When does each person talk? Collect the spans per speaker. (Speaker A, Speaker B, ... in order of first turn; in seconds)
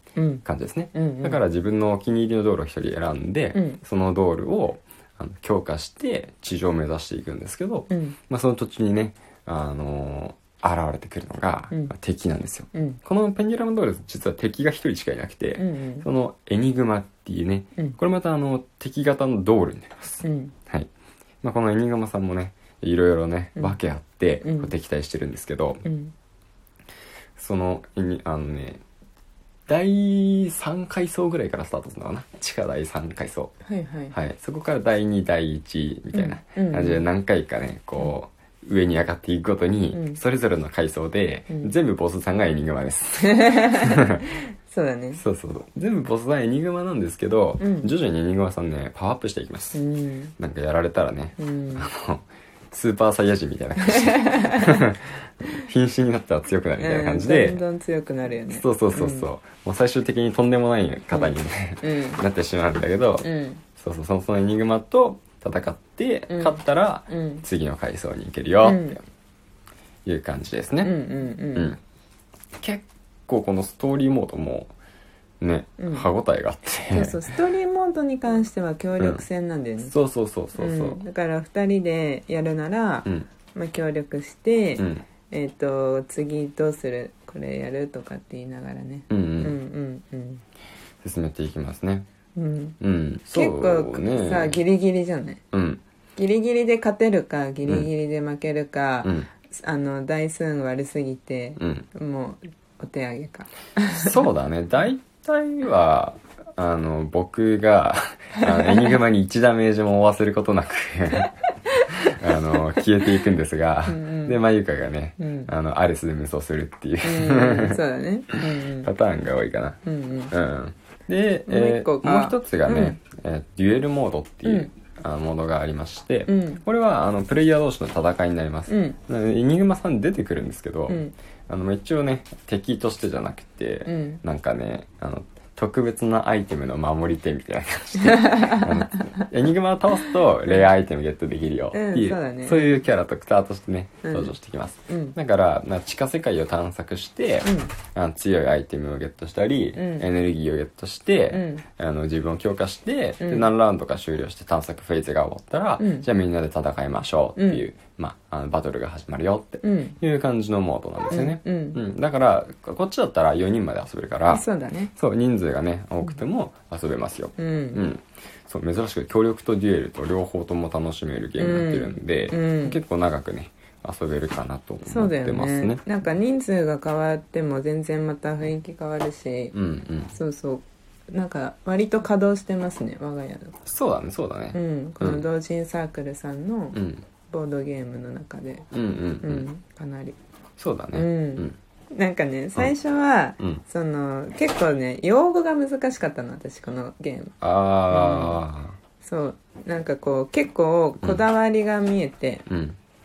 Speaker A: 0.1-1.4, 3.5-3.8, 7.9-8.2, 12.7-13.0, 15.6-16.1, 20.2-20.5, 24.4-24.7, 25.8-26.1, 33.6-34.1, 36.1-37.0, 39.9-40.2, 43.2-45.2, 47.6-47.9, 49.7-50.3, 51.4-51.9, 53.8-54.8, 56.8-59.3, 61.1-62.2, 63.2-63.6, 66.3-67.4, 68.6-69.0, 70.8-71.7, 75.8-76.0, 76.9-79.9, 80.5-90.4, 92.3-92.8, 93.3-95.4, 96.2-104.2, 113.9-114.4, 115.2-115.5, 117.0-118.9, 119.8-120.3, 121.5-123.0, 124.4-124.7, 126.3-126.6, 128.7-129.0, 130.9-131.1, 133.8-134.2, 138.1-138.7, 141.7-142.8, 144.0-144.3, 144.9-145.2, 147.4-147.7, 149.7-150.1, 151.3-151.6, 153.2-153.5, 155.8-156.1, 157.3-157.6, 159.6-160.0, 161.1-161.8, 164.3-164.9, 167.4-167.8, 171.4-172.8, 174.8-179.5, 180.1-183.6, 184.5-186.8, 187.3-188.7, 189.2-190.2, 190.9-197.3, 197.9-198.4, 199.0-202.4
Speaker B: 0.4-20.9, 21.4-25.8, 27.4-28.8, 29.7-33.5, 34.1-44.2, 45.1-49.8, 50.4-57.6, 58.5-69.0, 70.0-71.0, 71.5-71.8, 72.6-74.7, 75.4-77.3, 79.0-79.2, 79.8-81.0, 84.8-85.0, 89.1-89.6, 91.0-92.1, 92.8-94.6, 95.5-95.8, 99.0-99.3, 101.6-101.9, 103.9-111.3, 112.0-117.8, 118.8-175.8, 179.5-180.2, 183.6-185.2, 186.7-187.1, 188.7-189.4, 190.6-191.6, 197.4-198.8, 202.5-202.8